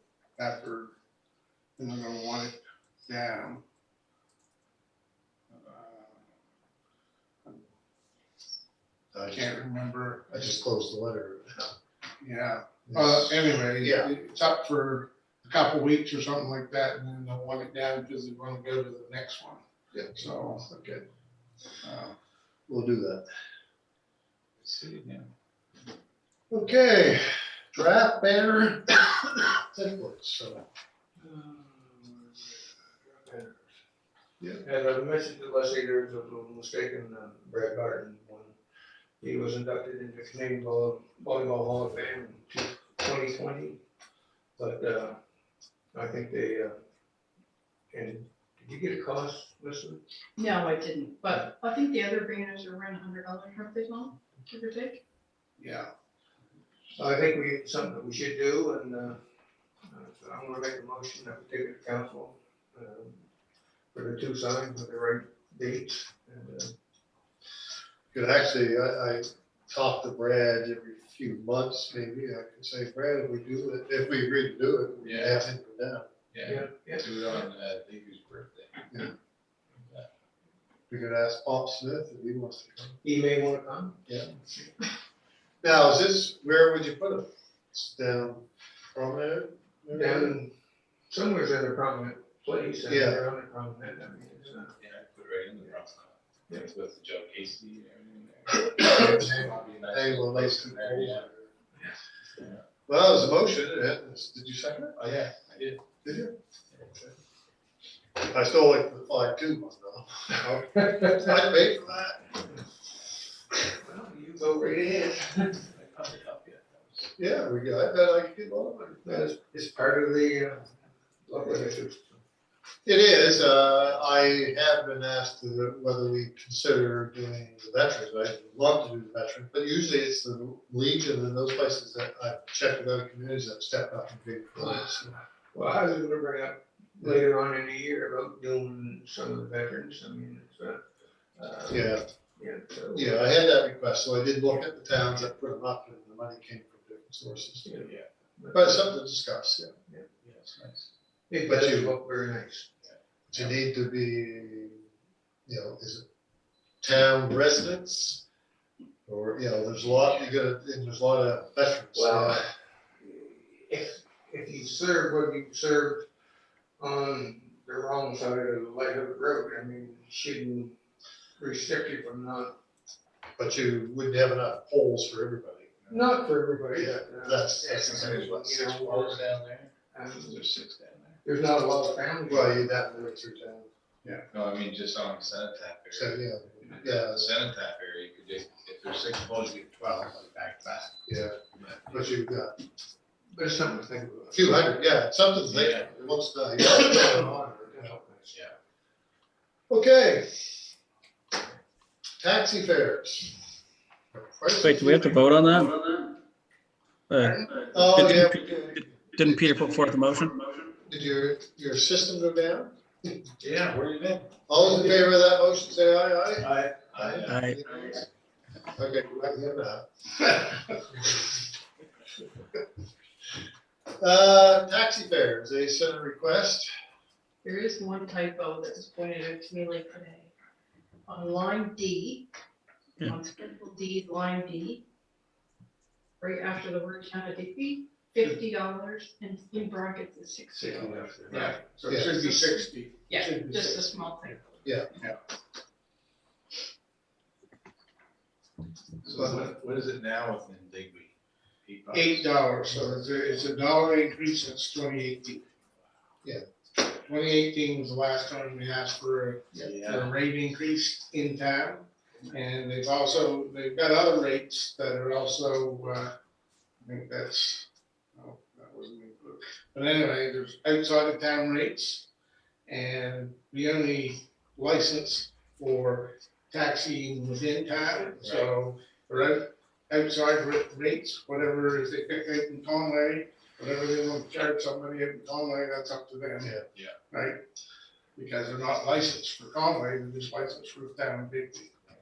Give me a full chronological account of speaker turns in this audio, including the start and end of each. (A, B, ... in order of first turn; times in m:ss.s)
0:00.4-0:00.9 A
0:01.8-0:03.6 A
0:05.5-0:06.2 A
0:09.1-0:09.5 B
0:09.3-0:10.5 A
0:10.3-0:11.7 B
0:12.2-0:19.6 A
0:12.9-0:14.1 B
0:19.9-0:21.0 B
0:20.2-0:20.8 A
0:21.8-0:22.2 A
0:22.7-0:23.2 B
0:24.6-0:25.3 C
0:26.5-0:30.6 B
0:31.2-0:33.7 D
0:34.6-0:38.6 D
0:39.2-0:43.8 D
0:44.6-0:45.2 D
0:45.9-0:46.8 D
0:47.9-0:50.0 D
0:50.4-0:55.0 E
0:55.6-0:55.9 A
0:57.0-0:59.2 D
0:59.9-1:03.2 D
1:03.9-1:06.8 D
1:08.1-1:16.0 B
1:15.0-1:15.4 C
1:16.3-1:19.0 C
1:16.4-1:17.1 D
1:20.9-1:23.0 B
1:23.0-1:24.0 D
1:25.6-1:30.4 B
1:29.9-1:30.5 D
1:31.1-1:34.7 D
1:32.9-1:33.2 B
1:34.8-1:41.3 C
1:38.8-1:41.5 B
1:42.9-1:45.1 B
1:45.0-1:45.8 C
1:46.0-1:46.3 B
1:46.7-1:47.1 C
1:48.2-1:52.3 B
1:50.8-1:51.3 D
1:53.7-1:55.6 D
1:55.6-1:57.1 C
1:57.2-1:59.2 B
1:59.0-2:00.7 D
2:01.2-2:02.2 D
2:01.4-2:01.7 B
2:02.8-2:15.2 B
2:15.5-2:23.2 D
2:21.7-2:22.0 B
2:22.9-2:27.7 B
2:27.6-2:28.9 D
2:27.8-2:28.1 C
2:28.5-2:29.7 B
2:30.2-2:30.9 C
2:31.3-2:32.7 D
2:31.5-2:32.0 B
2:32.8-2:33.6 C
2:33.3-2:34.8 B
2:35.5-2:36.0 B
2:36.8-2:38.2 B
2:39.1-2:42.5 B
2:39.8-2:40.3 C
2:42.0-2:42.5 D
2:43.0-2:46.1 D
2:46.8-2:50.8 D
2:51.4-2:52.6 D
2:53.4-2:55.8 B
2:55.9-2:56.2 C
2:55.9-2:59.3 D
2:56.8-2:58.4 B
2:57.9-3:01.2 C
2:59.9-3:00.4 D
3:01.2-3:02.8 D
3:02.3-3:03.7 B
3:04.3-3:11.0 C
3:05.9-3:07.4 B
3:11.1-3:12.6 B
3:11.6-3:11.9 C
3:13.3-3:14.7 D
3:14.4-3:17.9 B
3:15.5-3:15.9 C
3:15.9-3:18.4 D
3:19.7-3:20.5 B
3:22.2-3:23.4 B
3:24.1-3:25.5 B
3:24.6-3:25.8 F
3:27.1-3:30.6 F
3:27.7-3:29.6 B
3:30.9-3:32.7 B
3:33.4-3:35.0 C
3:34.5-3:38.0 B
3:36.4-3:38.0 C
3:37.2-3:37.6 F
3:38.8-3:40.5 B
3:44.0-3:46.7 B
3:47.4-3:50.3 E
3:51.1-3:52.3 E
3:53.0-3:54.8 E
3:56.2-4:01.0 E
4:00.6-4:01.7 D
4:01.3-4:04.4 A
4:01.9-4:02.2 B
4:02.1-4:04.6 E
4:04.6-4:04.9 B
4:09.0-4:11.1 C
4:11.6-4:12.3 C
4:11.9-4:15.4 A
4:16.9-4:26.1 A
4:19.6-4:20.1 C
4:26.8-4:32.1 A
4:32.7-4:46.6 A
4:38.2-4:38.5 C
4:47.1-4:47.4 A
4:48.2-4:51.8 A